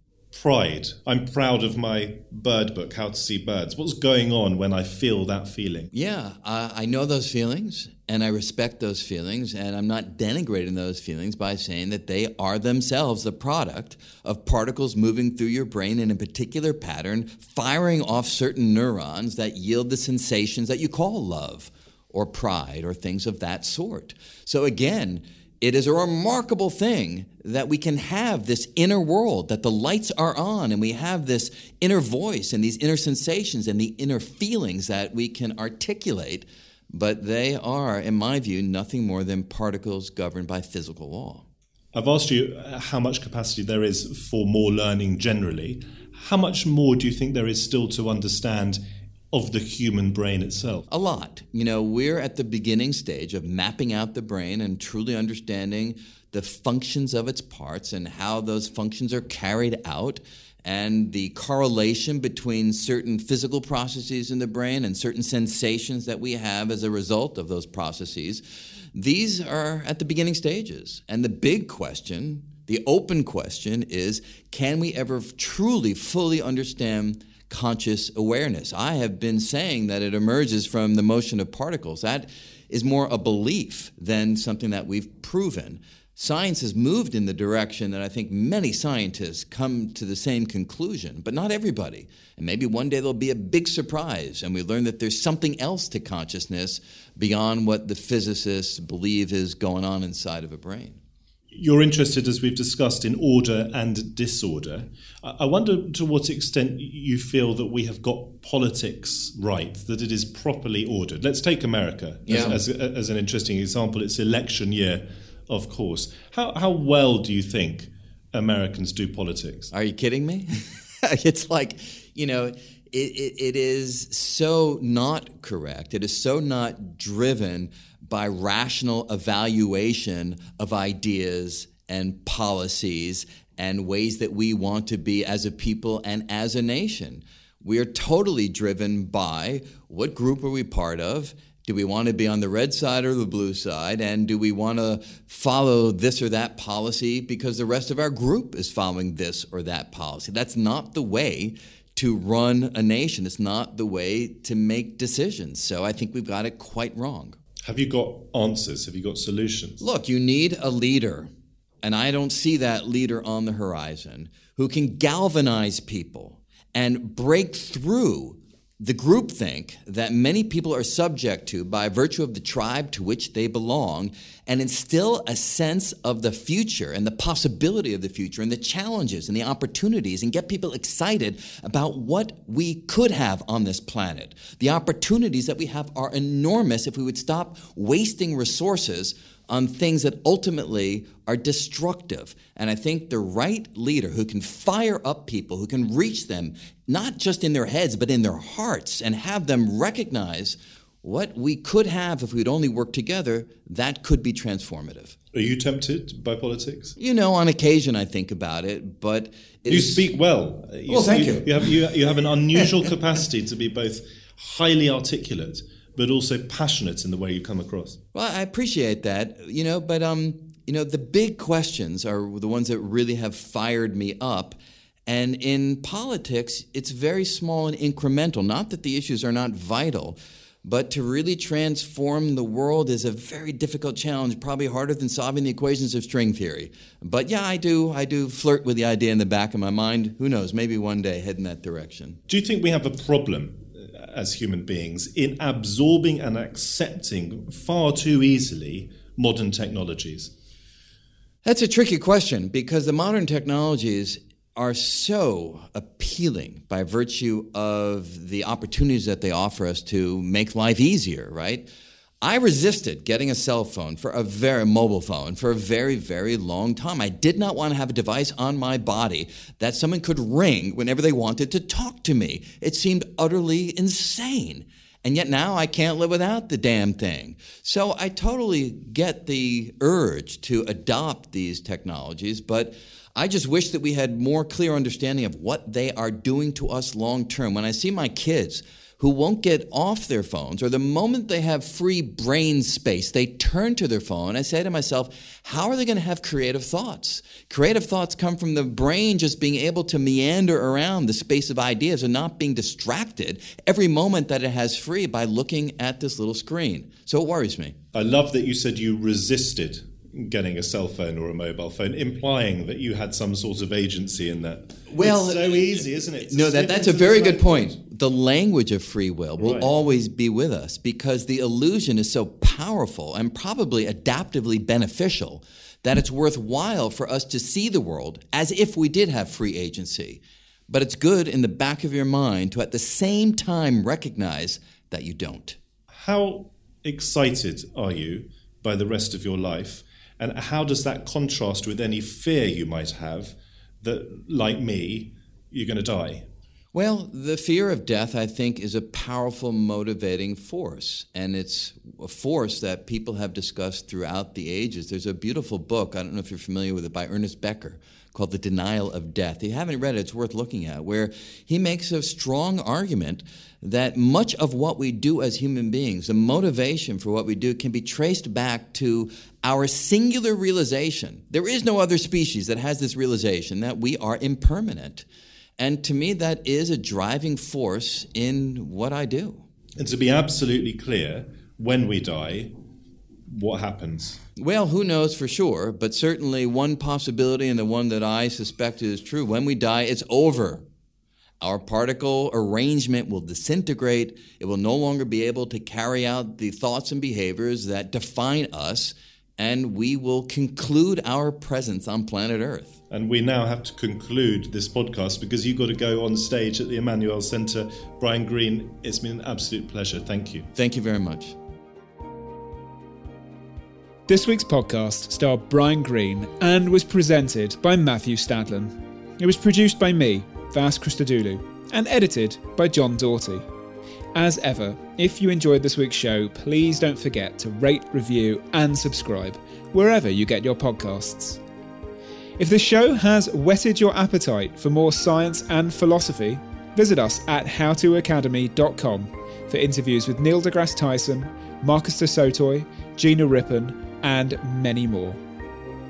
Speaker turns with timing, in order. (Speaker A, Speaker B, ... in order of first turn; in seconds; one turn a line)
Speaker A: 0.3-5.9
Speaker B: 5.9-41.4
Speaker A: 41.9-48.8
Speaker A: 49.3-50.9
Speaker B: 50.9-68.4
Speaker B: 68.9-101.0
Speaker A: 101.5-119.7
Speaker B: 112.2-112.6
Speaker B: 119.7-157.4
Speaker A: 157.6-159.8
Speaker B: 159.8-161.3
Speaker B: 161.8-205.2
Speaker A: 205.3-207.0
Speaker B: 207.0-210.1
Speaker A: 209.7-218.0
Speaker B: 210.9-211.7
Speaker B: 218.1-242.2
Speaker A: 242.3-250.3
Speaker B: 251.4-261.6
Speaker B: 262.2-307.7
Speaker A: 307.9-317.8
Speaker B: 314.9-315.7
Speaker B: 316.2-335.6
Speaker A: 319.4-319.7
Speaker A: 335.9-346.3
Speaker B: 346.7-375.1
Speaker B: 375.6-379.4
Speaker A: 379.8-382.5
Speaker A: 383.3-384.2
Speaker B: 384.4-390.6
Speaker B: 391.4-402.7
Speaker A: 402.9-410.5
Speaker B: 410.5-411.4
Speaker C: 414.1-423.4
Speaker C: 424.1-431.4
Speaker C: 432.4-445.2